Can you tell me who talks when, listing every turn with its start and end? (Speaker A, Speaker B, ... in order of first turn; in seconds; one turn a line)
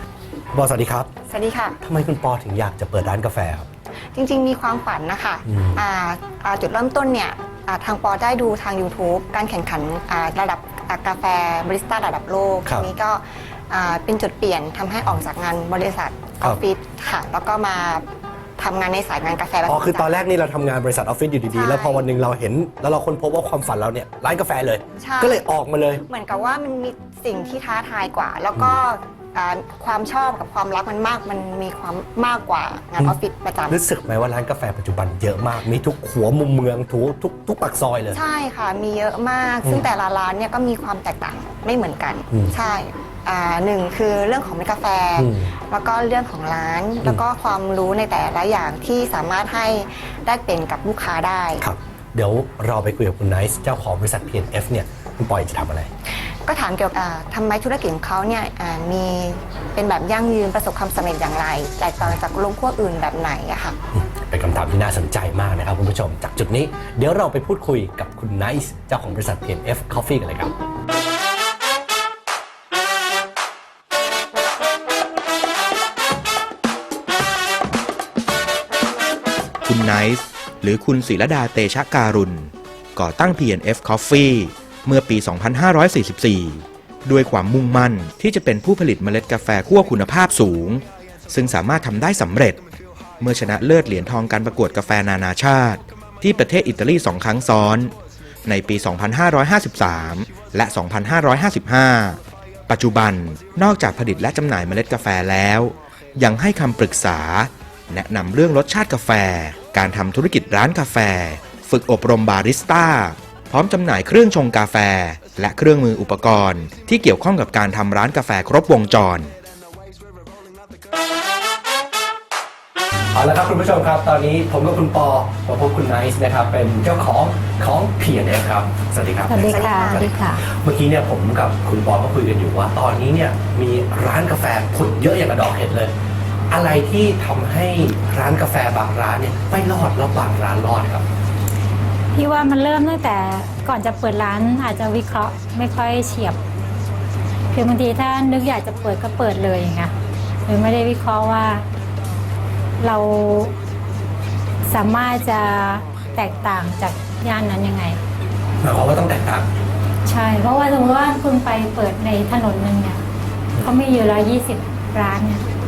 Speaker A: 0.5-1.1
Speaker B: 1.3-1.8
Speaker A: 1.8-3.7
Speaker B: 4.1-18.0
Speaker A: 5.5-5.8
Speaker B: 18.6-20.1
Speaker A: 19.6-26.0
Speaker B: 21.5-22.1
Speaker B: 25.0-25.4
Speaker B: 26.1-33.8
Speaker A: 33.7-38.2
Speaker B: 38.1-51.6
Speaker A: 45.2-45.5
Speaker A: 51.6-55.9
Speaker B: 56.5-63.8
Speaker A: 63.9-70.5
Speaker C: 79.6-92.6
Speaker C: 93.2-97.9
Speaker C: 98.5-119.3
Speaker A: 123.1-135.9
Speaker D: 129.3-130.4
Speaker B: 129.5-130.0
Speaker A: 136.5-141.1
Speaker D: 142.1-146.4
Speaker D: 147.5-149.9
Speaker D: 150.5-151.7
Speaker D: 152.8-153.5
Speaker D: 154.7-158.0
Speaker A: 158.6-159.5
Speaker D: 160.1-163.0
Speaker D: 163.6-165.4